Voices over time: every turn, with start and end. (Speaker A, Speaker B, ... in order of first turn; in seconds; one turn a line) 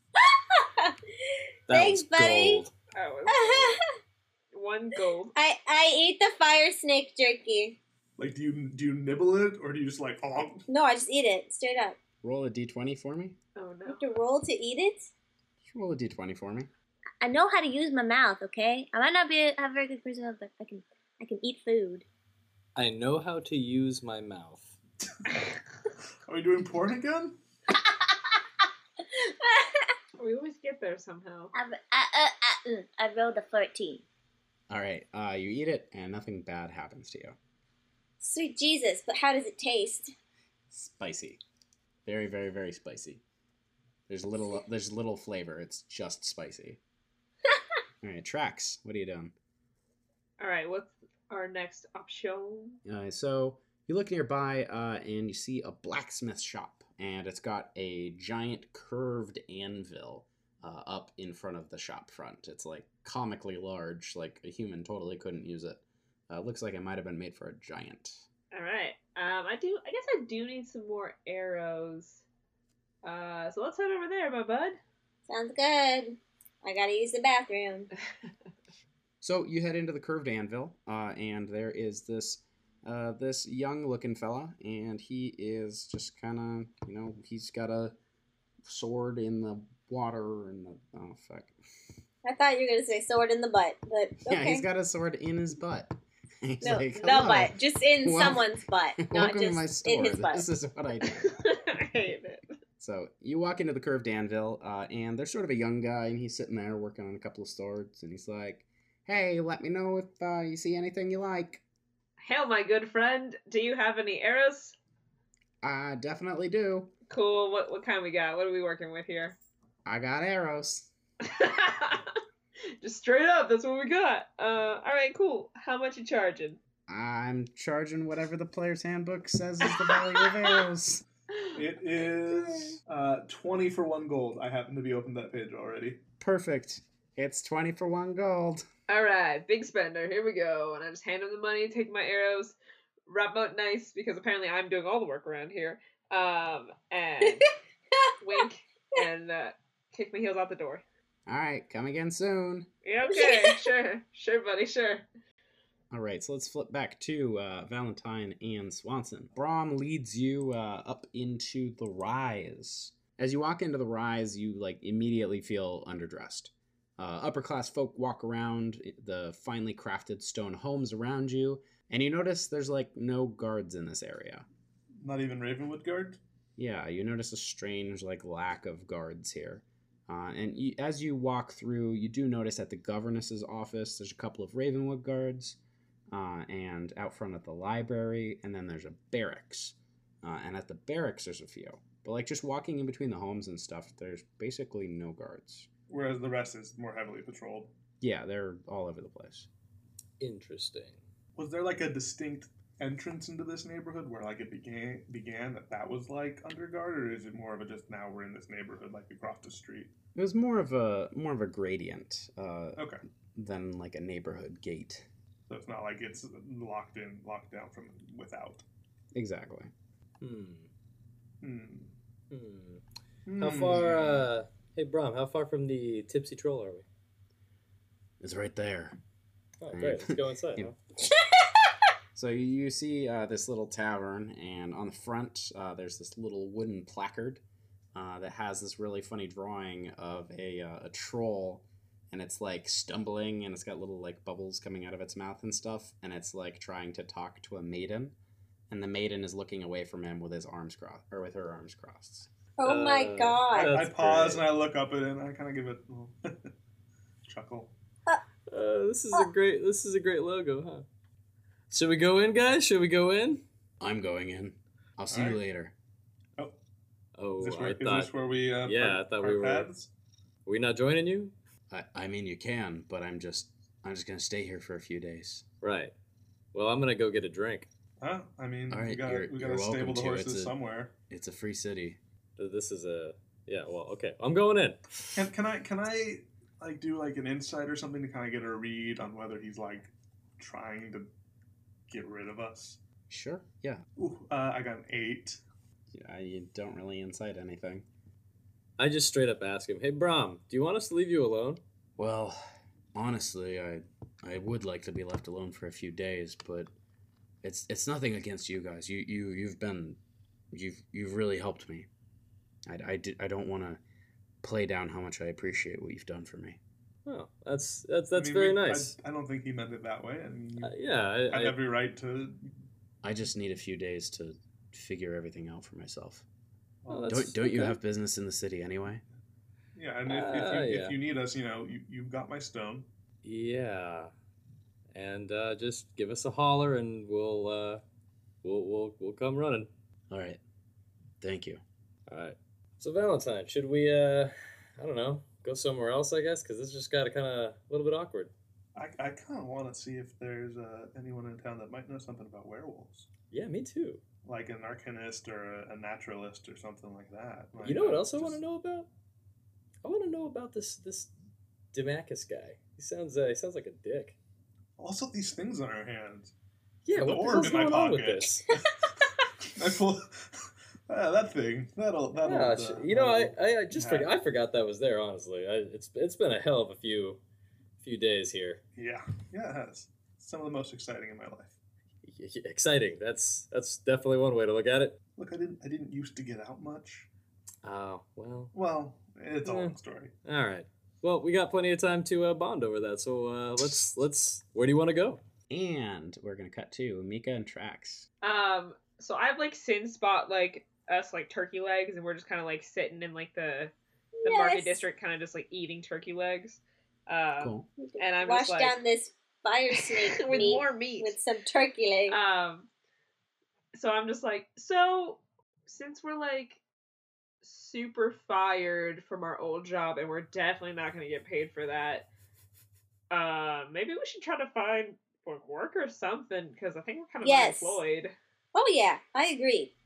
Speaker A: 0.2-1.0
Speaker B: 1.7-2.7
Speaker A: 1.7-2.6
Speaker C: 2.9-3.8
Speaker A: 3.3-3.8
Speaker C: 4.5-5.3
Speaker A: 5.3-7.8
Speaker D: 8.2-10.7
Speaker A: 10.7-12.0
Speaker E: 12.2-13.4
Speaker C: 13.6-14.1
Speaker A: 13.9-15.1
Speaker E: 15.6-16.7
Speaker A: 17.2-22.1
Speaker B: 22.8-24.7
Speaker D: 26.3-27.4
Speaker A: 29.1-29.9
Speaker C: 30.2-31.5
Speaker A: 31.5-34.0
Speaker E: 34.7-37.4
Speaker A: 38.2-40.1
Speaker E: 40.7-41.4
Speaker E: 42.0-43.2
Speaker E: 44.1-46.8
Speaker E: 48.0-49.3
Speaker C: 50.4-52.8
Speaker E: 52.9-68.2
Speaker C: 68.5-72.2
Speaker C: 73.0-74.8
Speaker A: 75.3-77.9
Speaker E: 79.2-88.0
Speaker E: 88.7-91.5
Speaker A: 92.2-94.6
Speaker E: 94.2-101.3
Speaker A: 96.6-100.4
Speaker C: 101.2-102.5
Speaker E: 102.8-111.6
Speaker C: 112.2-114.8
Speaker E: 115.6-116.9
Speaker C: 117.1-119.4
Speaker E: 119.8-120.9
Speaker C: 121.2-122.1
Speaker C: 122.8-126.6
Speaker E: 126.9-131.0
Speaker D: 131.5-136.0
Speaker C: 132.3-132.7
Speaker E: 136.2-138.6
Speaker C: 138.9-142.6
Speaker C: 143.1-147.5
Speaker C: 148.2-150.8
Speaker E: 151.3-152.7
Speaker C: 152.8-155.1
Speaker A: 153.1-153.7
Speaker E: 155.9-174.4
Speaker D: 175.0-176.2
Speaker E: 176.6-185.6
Speaker E: 186.1-195.7
Speaker D: 195.9-197.7
Speaker E: 198.0-199.5
Speaker B: 200.2-201.0
Speaker D: 201.4-209.9
Speaker E: 210.1-212.8
Speaker D: 212.8-213.0
Speaker E: 213.4-215.1
Speaker D: 215.5-218.6
Speaker E: 219.1-219.7
Speaker B: 220.2-220.7
Speaker D: 221.4-221.9
Speaker B: 222.3-222.8
Speaker D: 223.3-224.2
Speaker B: 223.4-226.9
Speaker E: 228.2-229.0
Speaker B: 229.6-230.7
Speaker E: 229.7-230.7
Speaker E: 232.1-237.4
Speaker E: 237.9-248.1
Speaker E: 248.7-252.3
Speaker A: 252.6-253.8
Speaker B: 252.6-254.4
Speaker D: 253.6-256.5
Speaker D: 257.2-257.7
Speaker B: 258.5-260.9
Speaker B: 261.7-263.4
Speaker E: 263.8-265.7
Speaker D: 265.1-265.4
Speaker B: 267.2-268.1
Speaker D: 267.4-269.9
Speaker B: 268.6-269.7
Speaker B: 270.4-271.3
Speaker E: 271.7-275.4
Speaker B: 275.6-275.9
Speaker B: 276.5-277.7
Speaker D: 278.0-280.9
Speaker E: 278.7-280.6
Speaker E: 281.1-282.0
Speaker B: 282.4-284.8
Speaker D: 285.1-291.1
Speaker D: 291.9-292.8
Speaker E: 293.1-293.8
Speaker D: 294.0-295.4
Speaker E: 295.9-297.9
Speaker B: 298.8-301.6
Speaker E: 302.0-302.4
Speaker E: 302.9-306.7
Speaker E: 307.4-310.0
Speaker E: 310.5-311.9
Speaker E: 312.7-313.8
Speaker E: 314.4-316.6
Speaker B: 317.1-318.9
Speaker D: 318.1-320.7
Speaker B: 320.6-321.6
Speaker D: 321.3-322.5
Speaker E: 323.0-326.2
Speaker D: 326.9-327.3
Speaker B: 326.9-327.8
Speaker E: 327.1-329.0
Speaker D: 329.7-332.9
Speaker B: 330.1-330.9
Speaker B: 333.2-334.1
Speaker B: 334.9-337.8
Speaker B: 338.4-339.7
Speaker E: 340.1-340.4
Speaker E: 341.2-341.6
Speaker B: 342.1-348.3
Speaker D: 348.7-353.1
Speaker B: 353.3-354.0
Speaker D: 354.2-358.4
Speaker B: 357.6-358.9
Speaker B: 359.8-361.1
Speaker B: 361.7-364.2
Speaker D: 364.8-366.3
Speaker B: 366.9-368.5
Speaker D: 366.9-368.9
Speaker D: 369.4-374.1
Speaker B: 372.2-377.2
Speaker B: 377.8-378.6
Speaker D: 378.8-381.6
Speaker B: 382.1-385.0
Speaker D: 385.2-387.1
Speaker B: 387.6-388.5
Speaker D: 388.5-390.1
Speaker B: 389.4-395.2
Speaker E: 395.5-398.1
Speaker C: 398.2-403.7
Speaker A: 404.2-404.8
Speaker C: 404.2-408.8
Speaker E: 407.4-407.7
Speaker A: 407.8-412.2
Speaker C: 409.7-411.2
Speaker C: 412.1-412.7
Speaker C: 413.7-416.6
Speaker C: 417.4-422.1
Speaker C: 423.1-428.1
Speaker A: 427.2-427.8
Speaker A: 428.5-429.7